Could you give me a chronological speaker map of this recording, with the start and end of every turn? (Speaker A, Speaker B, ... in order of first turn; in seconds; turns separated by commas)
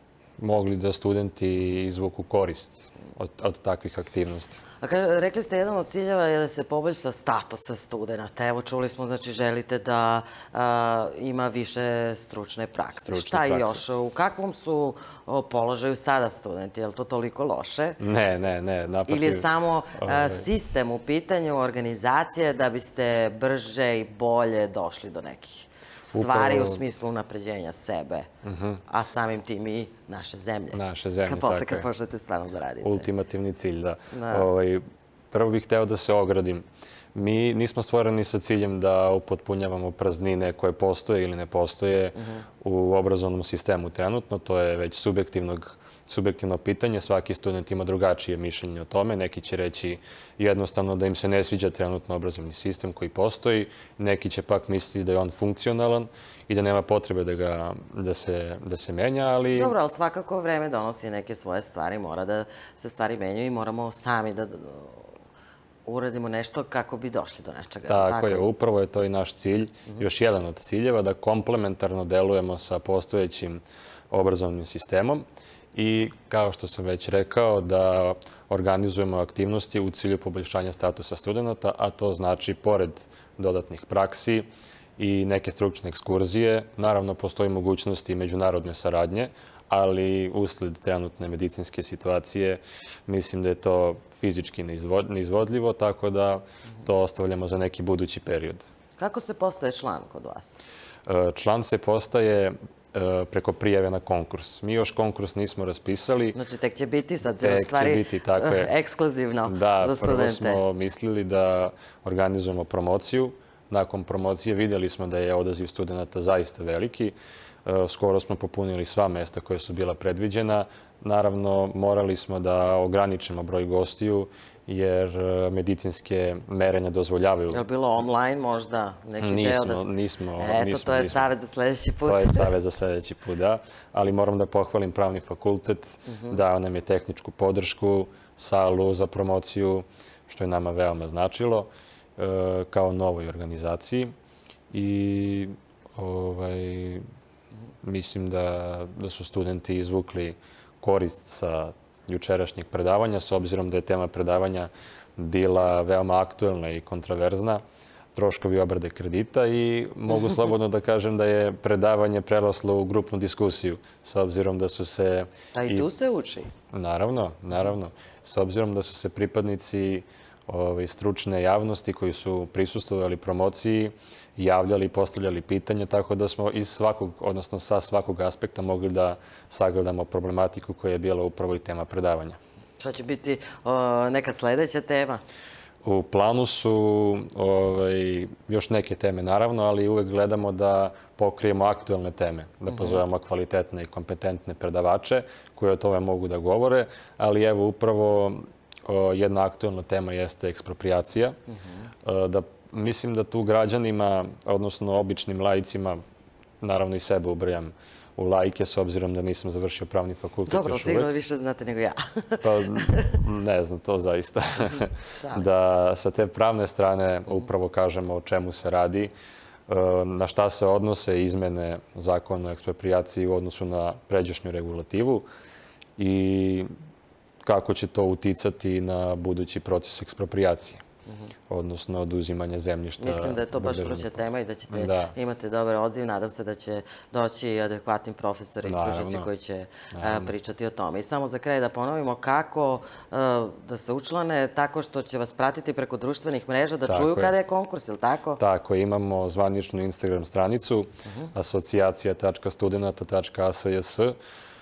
Speaker A: 0.4-4.6, Speaker B: 4.8-18.0, Speaker A: 13.0-13.8, Speaker A: 18.0-20.4, Speaker B: 19.1-28.3, Speaker A: 26.1-26.8, Speaker A: 28.4-28.8, Speaker B: 28.9-33.1, Speaker A: 30.7-31.9, Speaker A: 32.8-59.7, Speaker B: 34.1-34.5, Speaker B: 42.2-42.4, Speaker B: 59.5-65.1, Speaker B: 65.8-68.5, Speaker A: 67.9-75.2, Speaker A: 75.7-84.5, Speaker A: 85.0-98.7, Speaker B: 99.0-100.6, Speaker A: 101.0-106.3, Speaker B: 106.3-110.6, Speaker A: 107.4-108.7, Speaker A: 109.5-117.1, Speaker A: 117.6-127.6, Speaker B: 127.5-129.9, Speaker A: 129.2-131.3, Speaker B: 130.4-132.5, Speaker A: 132.0-144.1, Speaker B: 136.1-136.4, Speaker A: 144.7-147.0, Speaker A: 147.8-157.6, Speaker A: 158.1-165.8, Speaker B: 165.5-166.5, Speaker A: 166.7-182.4, Speaker B: 182.8-185.2, Speaker A: 185.8-201.4, Speaker B: 192.7-193.0, Speaker B: 201.5-201.9, Speaker A: 202.0-206.0, Speaker A: 206.6-211.1, Speaker B: 210.5-213.1, Speaker A: 212.4-219.1, Speaker B: 215.1-215.6, Speaker A: 219.7-225.2, Speaker A: 226.0-226.7, Speaker A: 227.4-230.8, Speaker A: 231.5-235.1, Speaker B: 233.0-248.4, Speaker A: 238.6-239.3, Speaker A: 239.9-240.3, Speaker A: 246.8-247.3, Speaker A: 248.4-254.1, Speaker B: 251.1-251.3